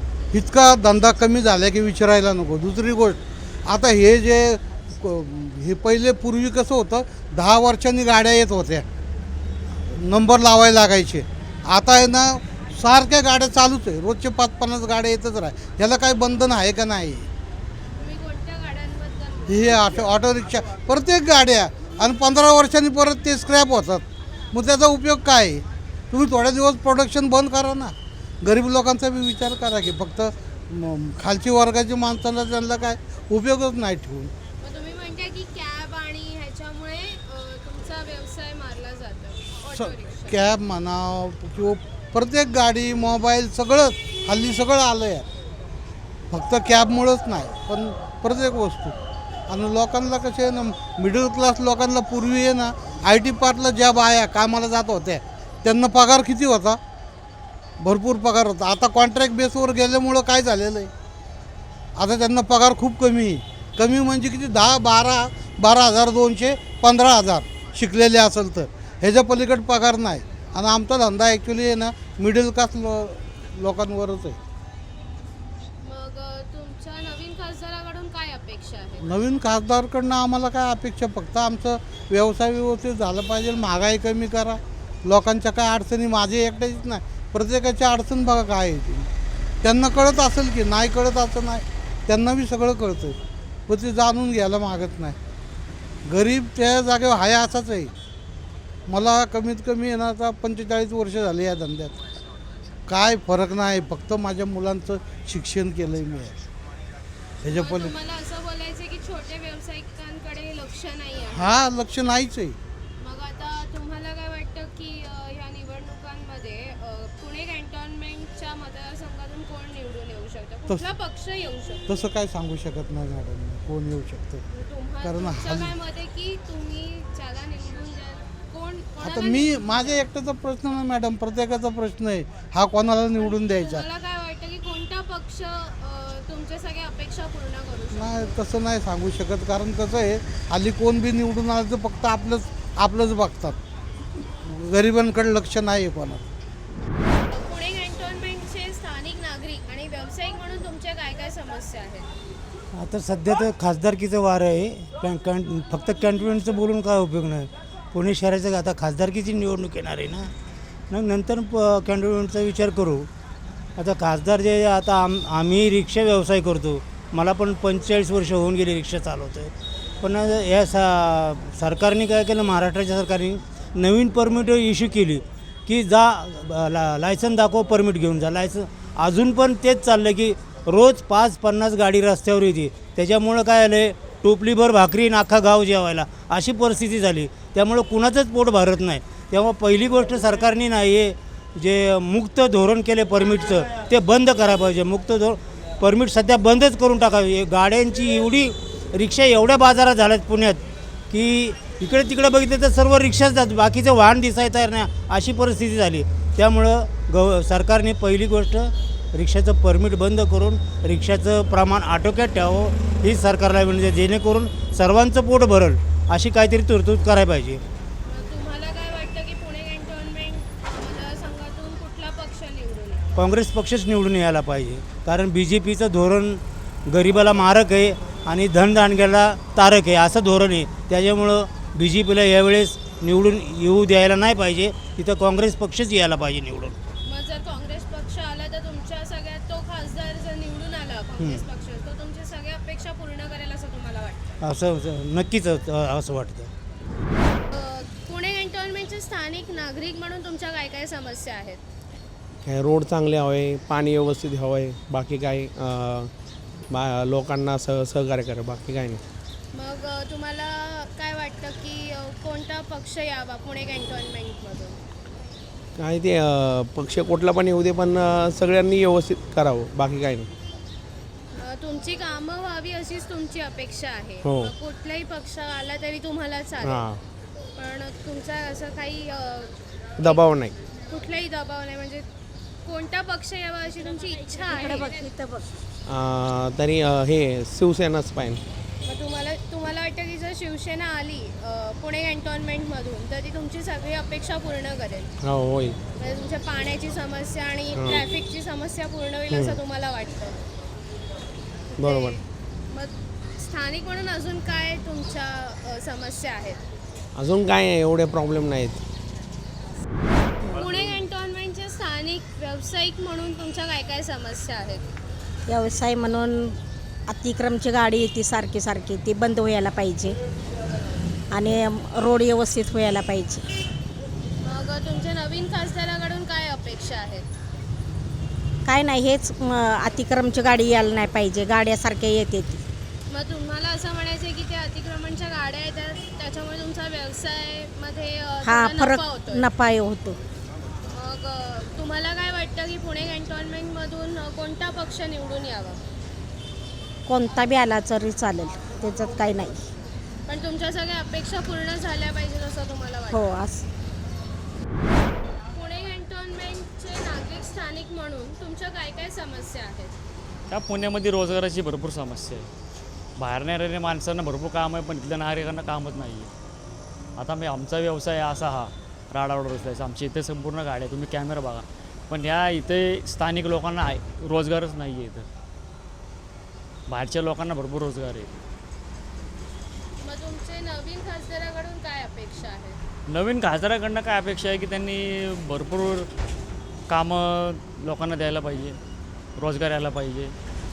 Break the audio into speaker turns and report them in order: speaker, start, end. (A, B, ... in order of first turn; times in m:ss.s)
0:00.3-0:08.9 A
0:09.9-0:17.3 A
0:18.0-0:19.8 B
0:19.5-0:34.3 A
0:34.6-0:40.5 B
0:39.7-0:45.3 A
0:46.3-0:49.0 A
0:49.5-0:56.8 A
0:57.8-1:00.9 A
1:02.0-1:14.4 A
1:15.8-1:19.1 B
1:19.0-1:29.1 A
1:29.6-1:33.2 A
1:33.7-1:35.2 A
1:36.0-1:37.9 A
1:38.9-1:42.0 A
1:42.9-1:46.4 A
1:47.4-1:48.0 A
1:47.5-1:51.6 B
1:51.3-1:52.6 A
1:53.0-2:01.9 B
2:01.9-2:04.5 A
2:04.5-2:10.1 B
2:05.0-2:05.8 A
2:09.0-2:13.9 A
2:13.2-2:18.4 B
2:17.9-2:23.6 A
2:24.4-2:26.3 A
2:27.3-2:32.1 B
2:32.7-2:40.3 C
2:40.9-2:43.1 C
2:43.8-3:37.6 C
3:38.0-3:43.1 B
3:43.2-3:56.8 C
3:57.0-4:04.4 B
4:01.2-4:01.4 C
4:04.4-4:06.5 C
4:07.5-4:11.6 B
4:12.4-4:16.1 D
4:16.7-4:19.0 D
4:19.5-4:24.8 B
4:25.8-4:30.3 D
4:31.4-4:36.8 B
4:34.2-4:34.6 D
4:36.6-4:37.0 D
4:37.6-4:40.3 B
4:40.0-4:40.6 D
4:40.8-4:42.1 B
4:42.6-4:44.9 B
4:44.5-4:45.4 E
4:45.9-4:48.4 D
4:48.8-4:55.1 B
4:55.2-4:55.8 D
4:56.0-5:00.4 B
4:57.7-4:58.1 D
4:59.3-4:59.6 D
5:01.8-5:02.2 D
5:01.8-5:02.2 B
5:02.7-5:06.6 B
5:07.2-5:08.8 D
5:10.5-5:14.8 B
5:15.5-5:20.2 E
5:21.3-5:23.5 E
5:24.4-5:27.3 B
5:28.7-5:32.6 E
5:33.1-5:39.4 B
5:38.4-5:40.2 E
5:40.9-5:45.8 B
5:47.1-5:49.7 E
5:50.3-5:53.2 B
5:53.1-5:53.6 E
5:55.5-6:00.0 B
6:00.5-6:02.5 F
6:03.2-6:06.3 F
6:07.2-6:15.3 F
6:16.9-6:18.3 F
6:20.0-6:22.8 B
6:23.1-6:26.1 F
6:26.9-6:28.8 F
6:29.4-6:30.3 F